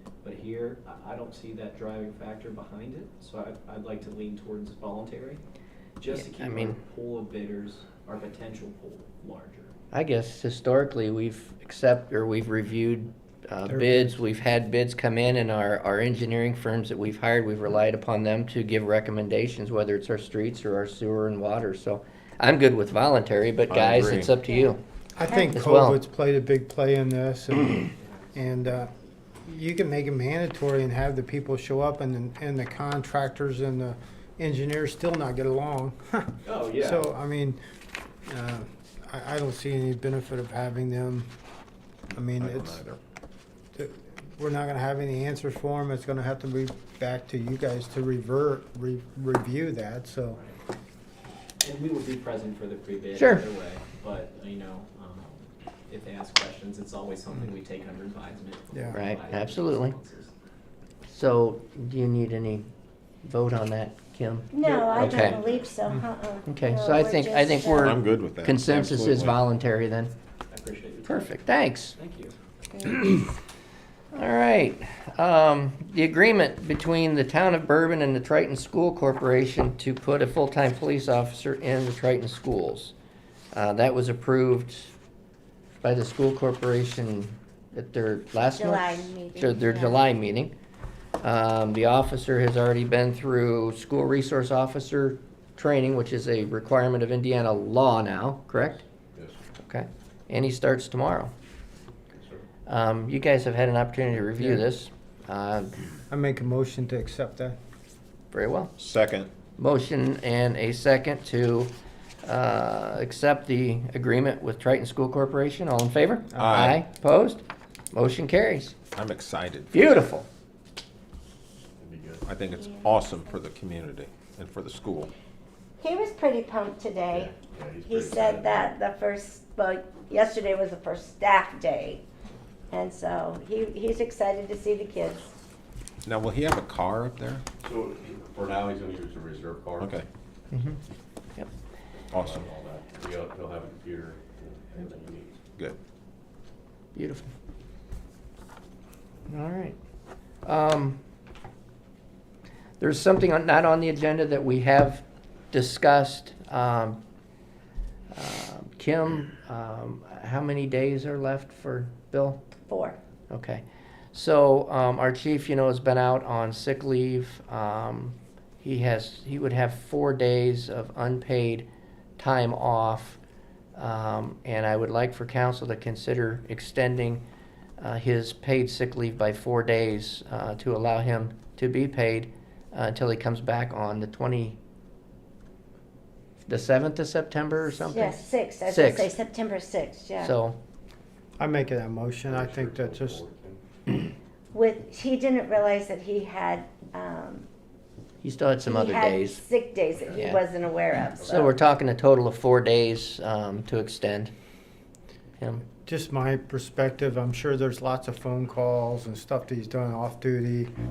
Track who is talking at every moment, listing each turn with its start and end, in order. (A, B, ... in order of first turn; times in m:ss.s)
0:00.2-0:05.4 A
0:06.0-0:09.7 A
0:06.1-0:06.8 B
0:09.9-0:24.8 B
0:13.7-0:14.2 C
0:23.7-0:24.4 D
0:25.2-0:28.9 C
0:25.4-0:26.0 B
0:28.0-0:28.3 A
0:29.4-0:37.6 C
0:36.4-0:37.1 A
0:38.3-0:41.3 C
0:42.1-0:42.8 C
0:42.4-0:43.0 D
0:43.8-0:50.4 C
0:51.6-1:00.3 A
0:53.2-0:53.4 B
0:58.7-0:59.0 C
0:58.9-1:00.0 B
1:01.1-1:02.7 B
1:03.2-1:05.4 B
1:04.5-1:08.0 E
1:05.0-1:05.2 D
1:05.1-1:05.4 A
1:06.5-1:10.1 B
1:07.8-1:09.4 D
1:10.5-1:11.4 A
1:11.0-1:12.0 B
1:12.0-1:12.3 A
1:12.8-1:13.3 B
1:14.1-1:22.9 B
1:23.5-1:24.9 B
1:25.8-1:30.5 B
1:28.5-1:30.0 E
1:31.2-1:38.8 B
1:39.6-1:41.3 B
1:42.1-1:42.4 F
1:42.7-1:45.8 B
1:46.1-1:47.6 C
1:48.3-1:48.7 B
1:48.8-1:49.3 D
1:49.6-1:51.7 B
1:52.2-1:58.8 B
1:56.4-1:56.8 D
1:58.9-2:00.0 D
1:59.7-2:00.3 B
2:01.8-2:02.2 F
2:02.2-2:05.1 D
2:05.8-2:12.0 E
2:07.1-2:08.7 F
2:12.7-2:15.3 E
2:16.0-2:17.4 D
2:17.6-2:19.9 F
2:19.8-2:20.1 D
2:20.5-2:20.8 B
2:22.1-2:22.4 D
2:22.2-2:25.4 F
2:27.0-2:27.3 B
2:29.3-2:29.8 B
2:30.4-2:31.0 B
2:32.8-2:37.0 B
2:38.1-2:42.5 B
2:42.6-2:43.0 E
2:43.3-2:51.7 B
2:52.2-2:53.2 B
2:53.8-2:57.2 B
2:57.8-3:04.6 B
3:06.4-3:09.1 B
3:07.7-3:10.4 E
3:10.2-3:10.6 B
3:11.4-3:13.2 C
3:12.3-3:13.6 F
3:14.5-3:17.5 E
3:18.2-3:19.4 B
3:18.6-3:21.5 E
3:20.2-3:20.4 B
3:21.2-3:24.3 B
3:25.4-3:25.7 B
3:25.8-3:30.7 C